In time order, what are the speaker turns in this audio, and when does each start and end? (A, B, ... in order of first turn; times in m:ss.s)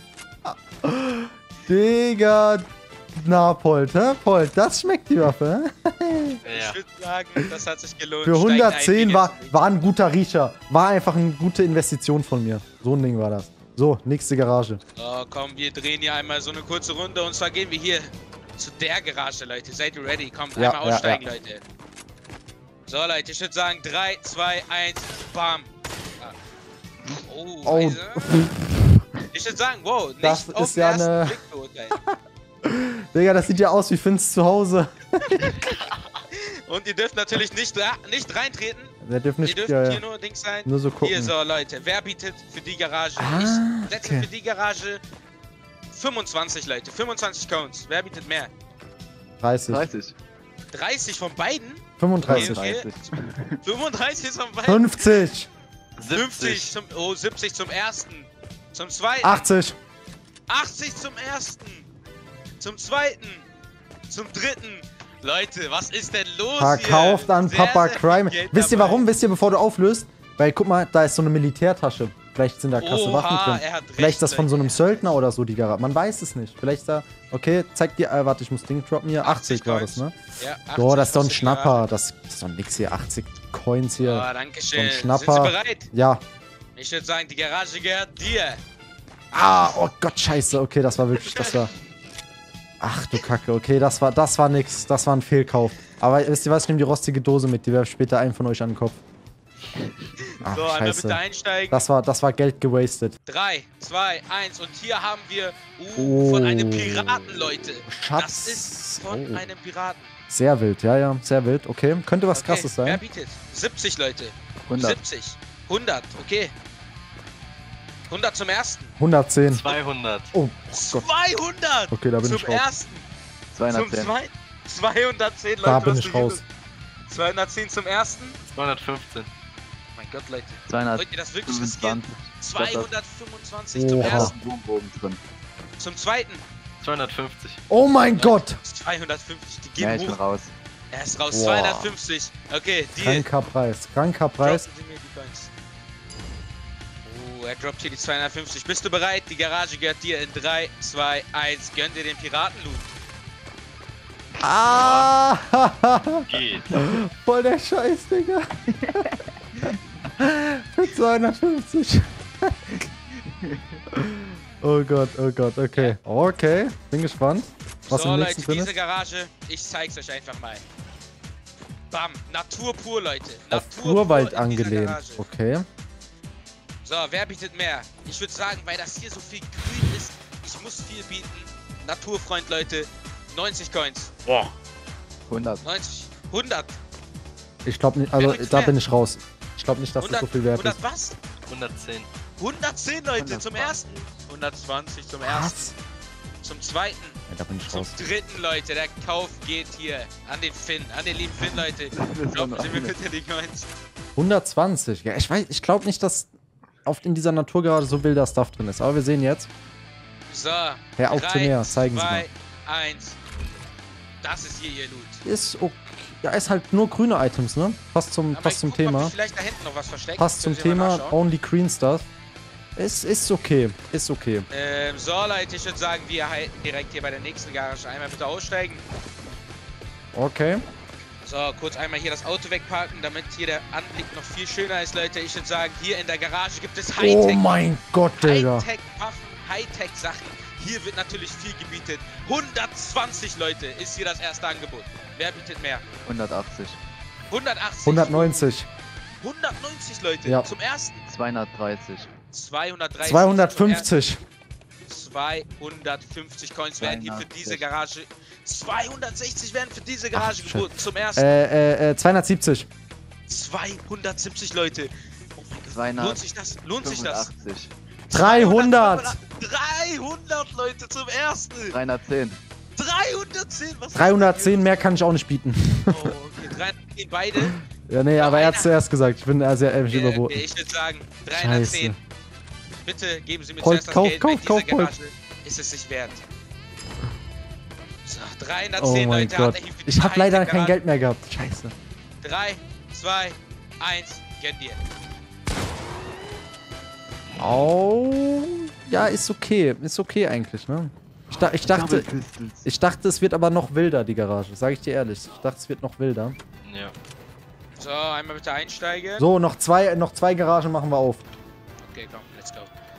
0:00.5-0:06.4 A
0:06.4-0:06.8 B
0:06.5-0:09.6 C
0:08.2-0:14.8 A
0:15.0-0:21.6 C
0:20.6-0:21.2 A
0:22.9-0:26.4 C
0:27.2-0:28.3 C
0:27.6-0:28.8 A
0:29.3-0:32.0 C
0:30.2-0:31.4 A
0:32.0-0:35.6 A
0:36.3-0:45.0 C
0:39.0-0:40.0 A
0:40.6-0:41.3 A
0:43.2-0:44.3 A
0:45.9-0:48.5 C
0:49.4-0:49.8 A
0:49.7-0:50.2 D
0:50.7-0:53.0 C
0:52.0-0:52.6 A
0:52.2-0:53.6 D
0:53.6-0:55.0 C
0:54.6-0:55.5 A
0:56.0-0:56.7 B
0:56.1-0:59.5 C
0:59.2-0:59.8 A
1:00.5-1:01.9 C
1:02.6-1:03.5 C
1:04.1-1:09.1 C
1:06.6-1:20.2 A
1:12.8-1:15.2 C
1:19.2-1:21.8 C
1:20.7-1:26.2 A
1:24.0-1:25.9 C
1:26.8-1:28.6 C
1:29.3-1:31.7 A
1:31.3-1:31.6 C
1:32.8-1:39.0 A
1:40.2-1:41.9 C
1:40.4-1:43.2 A
1:43.3-1:50.1 C
1:46.0-1:49.5 A
1:50.3-1:53.0 A
1:52.3-1:56.5 C
1:54.7-1:55.0 D
1:58.1-1:58.9 C
1:59.0-1:59.6 A
1:59.5-2:00.3 B
2:00.3-2:01.1 A
2:00.7-2:03.1 C
2:01.9-2:02.6 A
2:03.5-2:04.1 D
2:03.7-2:06.4 C
2:05.6-2:06.4 A
2:07.1-2:08.4 C
2:08.5-2:09.3 B
2:10.0-2:14.3 C
2:10.7-2:12.9 D
2:13.8-2:14.3 A
2:14.0-2:15.2 D
2:15.8-2:16.4 C
2:16.8-2:17.6 B
2:17.7-2:18.6 A
2:18.2-2:20.2 C
2:19.8-2:20.5 D
2:20.9-2:23.3 C
2:21.3-2:22.0 A
2:23.0-2:24.6 A
2:24.4-2:25.5 C
2:27.0-2:32.9 C
2:34.4-2:39.1 A
2:34.7-2:35.1 B
2:36.3-2:36.8 B
2:40.2-2:42.8 A
2:43.9-2:48.8 A
2:47.9-2:50.6 C
2:51.9-2:55.3 C
2:53.5-2:55.7 A
2:56.8-3:04.2 C
3:05.3-3:05.6 D
3:05.6-3:06.8 C
3:07.6-3:10.8 A
3:08.2-3:08.8 C
3:10.0-3:11.2 C
3:11.5-3:12.1 B
3:12.4-3:15.8 C
3:13.2-3:13.8 D
3:15.2-3:15.8 A
3:16.4-3:17.2 C
3:17.3-3:18.0 A
3:17.7-3:23.7 C
3:21.9-3:23.0 D
3:24.2-3:26.3 A
3:26.9-3:29.5 A
3:30.3-3:33.2 C
3:31.0-3:32.3 A
3:34.2-3:35.2 C
3:35.2-3:39.1 A
3:38.3-3:41.2 C
3:40.2-3:42.1 A
3:42.8-3:44.5 A
3:44.5-3:48.8 C
3:50.2-3:50.6 A
3:51.2-3:57.6 C
3:57.0-3:58.7 A
3:58.2-4:05.9 C
4:06.1-4:06.8 D
4:07.3-4:08.5 C
4:07.8-4:08.7 A
4:09.2-4:11.0 C
4:11.1-4:12.1 D
4:12.3-4:13.9 C
4:13.0-4:14.2 A
4:14.9-4:21.3 C
4:16.8-4:17.7 D
4:20.1-4:22.7 A
4:23.3-4:27.3 C
4:25.7-4:26.2 D
4:26.8-4:27.7 D
4:28.1-4:31.8 C
4:28.1-4:29.2 A
4:31.7-4:32.4 D
4:32.8-4:34.9 C
4:33.9-4:36.2 A
4:35.9-4:37.6 C
4:37.4-4:40.4 A
4:38.2-4:38.7 C
4:39.9-4:42.0 C
4:41.3-4:42.0 A
4:42.8-4:46.2 C
4:43.6-4:44.9 A
4:48.0-4:50.8 C
4:48.8-4:51.7 A
4:52.2-4:54.8 C
4:57.4-5:02.1 A
5:01.4-5:02.7 D
5:02.6-5:06.4 A
5:06.6-5:07.0 B
5:07.8-5:09.2 C
5:09.2-5:11.2 A
5:11.8-5:12.7 C